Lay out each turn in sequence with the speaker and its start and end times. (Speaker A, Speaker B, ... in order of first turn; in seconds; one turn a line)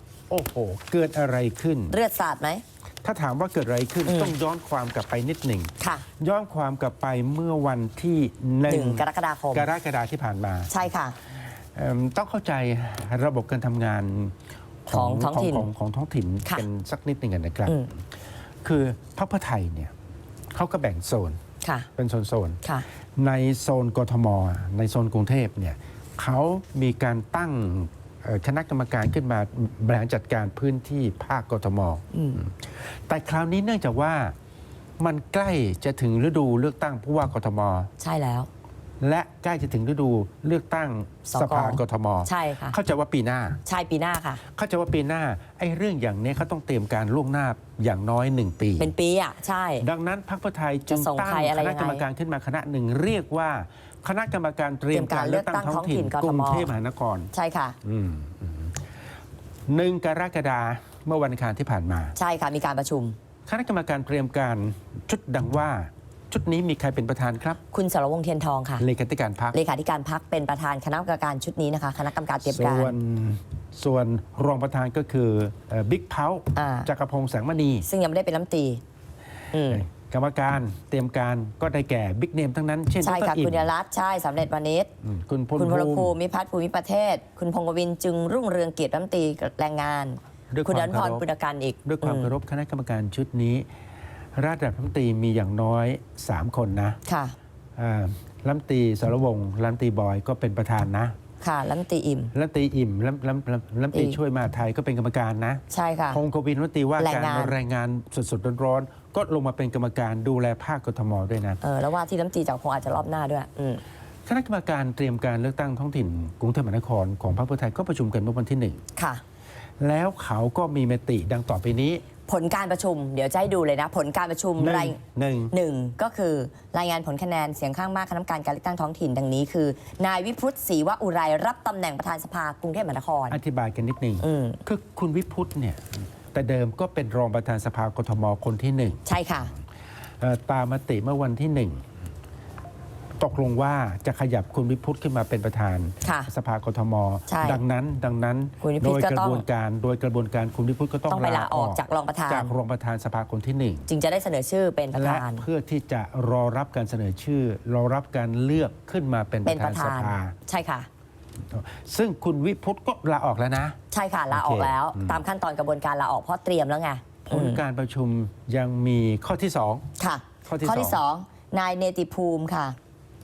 Speaker A: 0.3-2.0
Speaker B: 1.9-2.6
Speaker A: 3.0-10.8
Speaker B: 4.1-4.3
Speaker B: 5.8-6.1
Speaker B: 8.7-9.7
Speaker B: 10.7-11.2
Speaker A: 11.6-14.3
Speaker A: 14.9-18.0
Speaker B: 14.9-15.7
Speaker A: 18.6-19.9
Speaker A: 20.5-21.4
Speaker B: 21.6-21.9
Speaker A: 22.0-22.6
Speaker A: 23.2-34.3
Speaker B: 32.1-32.4
Speaker A: 35.0-37.9
Speaker B: 38.0-38.5
Speaker A: 39.0-43.6
Speaker B: 41.3-42.8
Speaker B: 43.7-44.4
Speaker A: 44.5-48.9
Speaker B: 48.8-49.9
Speaker A: 49.8-57.3
Speaker B: 50.9-52.1
Speaker B: 54.9-56.7
Speaker B: 57.3-57.8
Speaker A: 57.8-58.8
Speaker A: 59.7-62.1
Speaker B: 62.2-63.2
Speaker A: 63.5-67.6
Speaker B: 67.7-68.8
Speaker A: 68.8-69.6
Speaker B: 69.5-73.0
Speaker A: 72.4-77.9
Speaker B: 76.5-76.9
Speaker B: 77.8-78.8
Speaker B: 79.5-79.8
Speaker A: 79.6-83.7
Speaker B: 83.0-84.9
Speaker A: 85.0-86.2
Speaker B: 85.6-92.3
Speaker A: 90.5-91.2
Speaker A: 91.8-93.7
Speaker A: 94.4-97.0
Speaker B: 97.1-97.4
Speaker A: 97.8-101.2
Speaker B: 101.4-102.3
Speaker A: 102.3-111.6
Speaker B: 103.9-104.2
Speaker B: 105.7-106.2
Speaker B: 107.0-107.6
Speaker B: 111.6-113.8
Speaker A: 114.3-118.8
Speaker B: 119.0-119.2
Speaker A: 119.8-122.0
Speaker B: 122.3-125.0
Speaker A: 124.6-125.5
Speaker B: 125.5-133.4
Speaker A: 133.3-139.0
Speaker B: 134.2-134.6
Speaker B: 139.1-139.5
Speaker A: 140.2-141.8
Speaker A: 143.2-153.9
Speaker B: 146.0-146.3
Speaker B: 147.3-147.6
Speaker B: 148.6-149.5
Speaker B: 151.1-152.6
Speaker B: 153.9-155.5
Speaker A: 154.9-160.3
Speaker B: 159.4-160.9
Speaker A: 161.5-163.8
Speaker B: 163.9-167.6
Speaker A: 164.3-165.2
Speaker A: 167.3-169.9
Speaker B: 170.0-172.8
Speaker A: 170.4-171.0